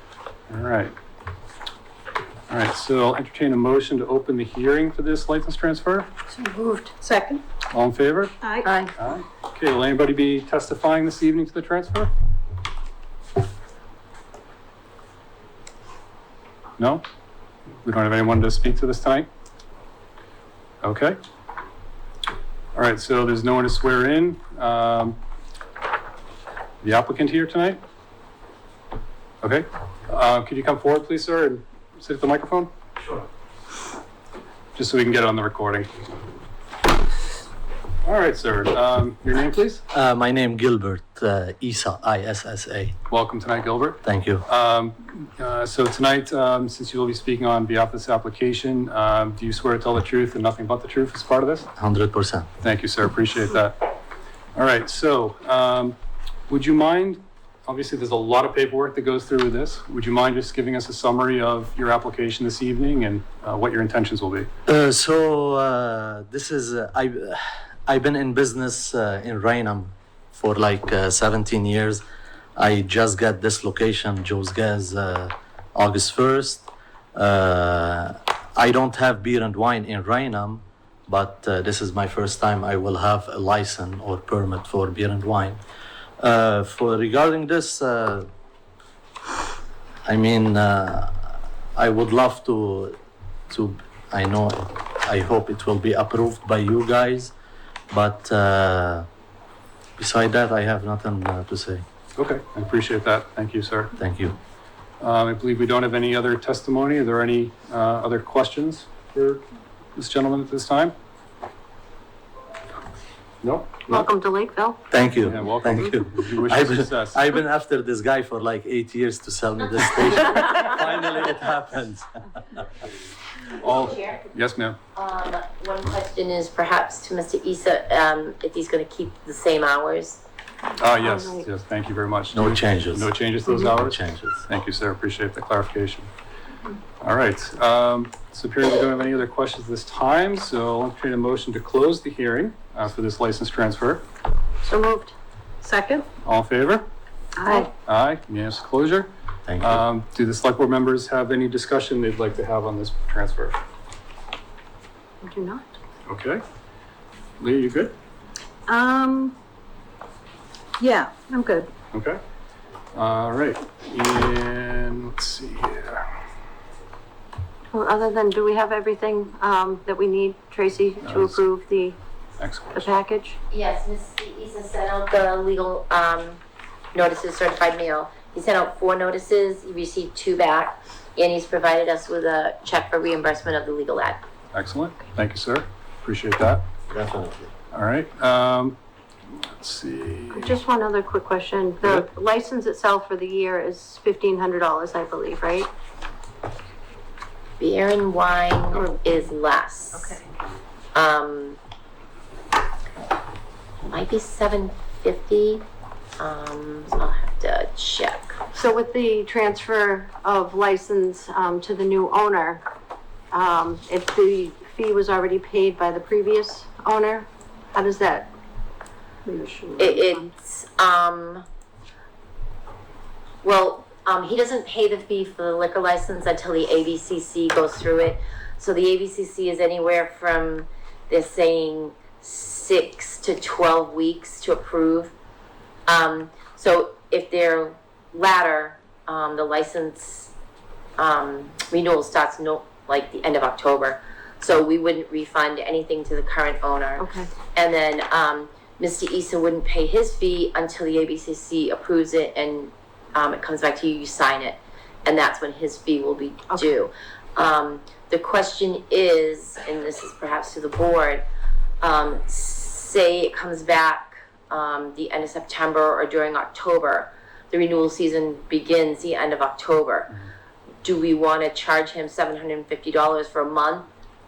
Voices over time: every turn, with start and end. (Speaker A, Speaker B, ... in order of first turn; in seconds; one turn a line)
Speaker A: 0.5-0.9
Speaker A: 2.5-6.1
Speaker B: 6.3-7.4
Speaker A: 7.7-8.4
Speaker B: 8.4-8.9
Speaker A: 9.0-12.1
Speaker A: 16.8-17.1
Speaker A: 17.8-19.3
Speaker A: 20.8-21.2
Speaker A: 22.7-25.2
Speaker A: 26.8-27.8
Speaker A: 29.4-32.7
Speaker A: 34.8-35.9
Speaker A: 38.0-39.8
Speaker C: 39.9-43.0
Speaker A: 43.1-51.7
Speaker C: 44.0-44.5
Speaker C: 51.8-52.5
Speaker A: 52.6-53.9
Speaker A: 54.5-56.0
Speaker A: 56.5-64.5
Speaker C: 64.7-72.0
Speaker C: 72.6-85.6
Speaker C: 86.2-88.3
Speaker C: 90.1-93.0
Speaker C: 93.5-97.3
Speaker C: 97.9-99.1
Speaker C: 100.0-101.8
Speaker A: 102.2-103.9
Speaker C: 104.0-104.4
Speaker A: 105.0-109.5
Speaker A: 110.0-110.9
Speaker A: 113.4-114.0
Speaker B: 113.9-114.8
Speaker C: 114.9-122.1
Speaker A: 115.2-117.2
Speaker A: 123.6-124.8
Speaker D: 123.8-124.2
Speaker D: 125.0-130.2
Speaker A: 130.8-136.1
Speaker B: 131.0-131.5
Speaker C: 132.3-134.5
Speaker A: 137.0-144.1
Speaker B: 144.6-146.1
Speaker A: 146.2-146.9
Speaker B: 147.4-147.7
Speaker A: 147.5-149.1
Speaker C: 149.5-149.8
Speaker A: 149.6-153.6
Speaker B: 155.2-155.8
Speaker A: 156.1-156.4
Speaker A: 157.4-157.9
Speaker B: 158.7-159.4
Speaker B: 160.8-161.7
Speaker A: 161.9-162.2
Speaker A: 162.9-166.1
Speaker B: 167.7-172.0
Speaker A: 171.0-171.4
Speaker A: 172.4-172.9
Speaker B: 172.7-173.4
Speaker D: 173.5-176.4
Speaker D: 176.9-184.2
Speaker A: 184.5-186.7
Speaker C: 186.9-187.5
Speaker A: 187.7-188.8
Speaker A: 189.3-190.6
Speaker B: 190.3-195.7
Speaker A: 191.8-192.1
Speaker D: 197.6-200.2
Speaker D: 200.9-201.6
Speaker D: 203.8-205.7
Speaker D: 206.2-208.4
Speaker B: 208.5-212.6
Speaker B: 213.3-218.3
Speaker B: 219.2-220.3
Speaker D: 219.8-221.5
Speaker D: 223.4-235.1
Speaker D: 235.9-240.3
Speaker D: 241.0-261.3
Speaker B: 247.0-247.3
Speaker D: 261.8-270.1
Speaker D: 270.8-273.9